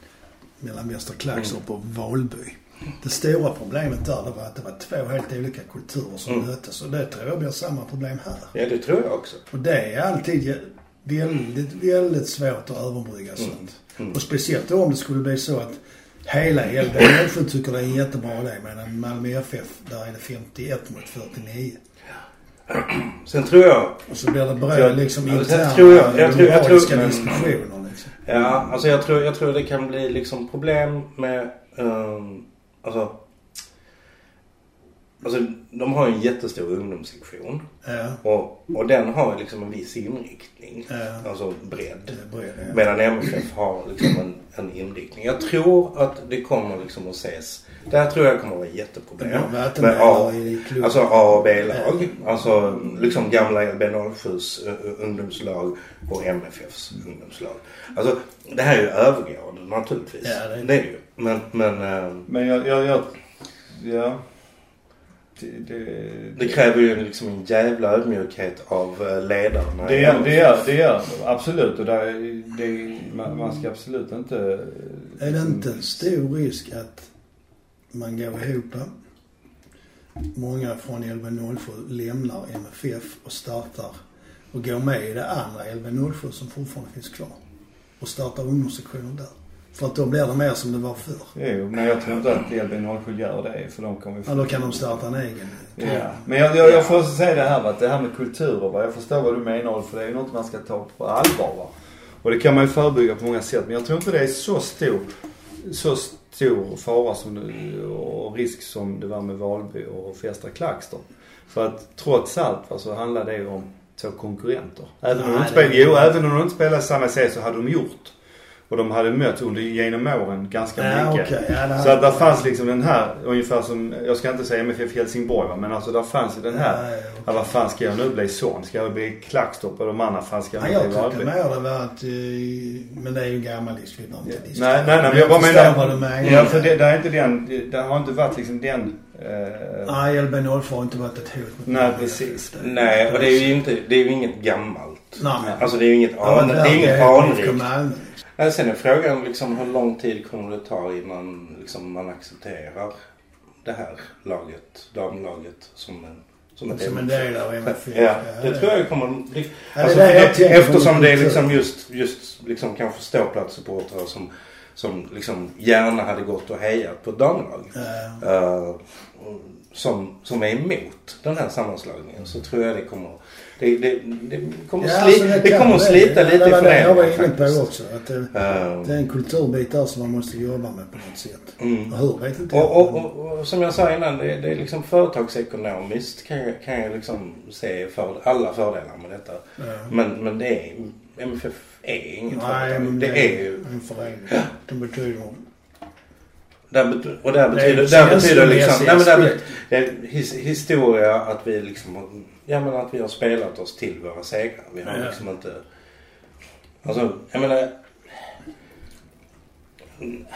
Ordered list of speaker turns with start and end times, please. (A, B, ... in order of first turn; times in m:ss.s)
0:00.6-0:08.5 A
0:08.5-0:09.4 B
0:09.5-0:21.8 A
0:22.7-0:24.0 B
0:24.1-0:28.1 A
0:24.7-0:25.0 C
0:25.1-0:27.6 B
0:26.4-0:27.2 C
0:28.2-0:33.1 B
0:35.2-0:37.6 B
0:37.8-0:38.2 A
0:38.2-1:02.3 B
0:40.9-0:41.2 A
0:42.1-0:42.8 A
0:49.2-0:51.2 A
0:51.7-0:52.1 A
1:00.2-1:00.7 A
1:02.3-1:03.1 C
1:03.7-1:04.2 C
1:05.4-1:06.8 C
1:06.4-1:10.6 B
1:09.8-1:15.8 C
1:15.2-1:17.1 A
1:17.9-1:18.9 A
1:20.3-1:24.0 A
1:24.5-1:27.4 A
1:28.0-1:31.3 A
1:31.4-1:35.0 C
1:34.2-1:36.2 A
1:35.8-1:41.7 C
1:36.6-1:37.0 B
1:42.2-1:45.1 C
1:45.6-1:58.1 C
1:55.1-1:56.1 A
1:58.7-2:11.3 C
2:00.8-2:02.4 A
2:06.5-2:07.4 A
2:10.6-2:16.7 A
2:14.2-2:19.9 C
2:16.2-2:16.5 B
2:19.8-2:23.5 A
2:21.7-2:22.6 C
2:22.6-2:27.7 B
2:25.2-2:25.7 A
2:26.2-2:28.2 A
2:28.4-2:32.9 B
2:33.6-2:57.6 B
2:36.7-2:38.7 A
2:39.8-2:41.4 A
2:47.7-2:48.2 A
2:54.8-3:03.0 A
2:58.3-2:59.0 B
3:01.6-3:01.9 B
3:02.5-3:13.6 B
3:09.6-3:09.9 A
3:12.3-3:15.4 A
3:16.7-3:25.6 B
3:17.5-3:19.5 A
3:24.8-3:25.2 A
3:26.8-3:27.7 B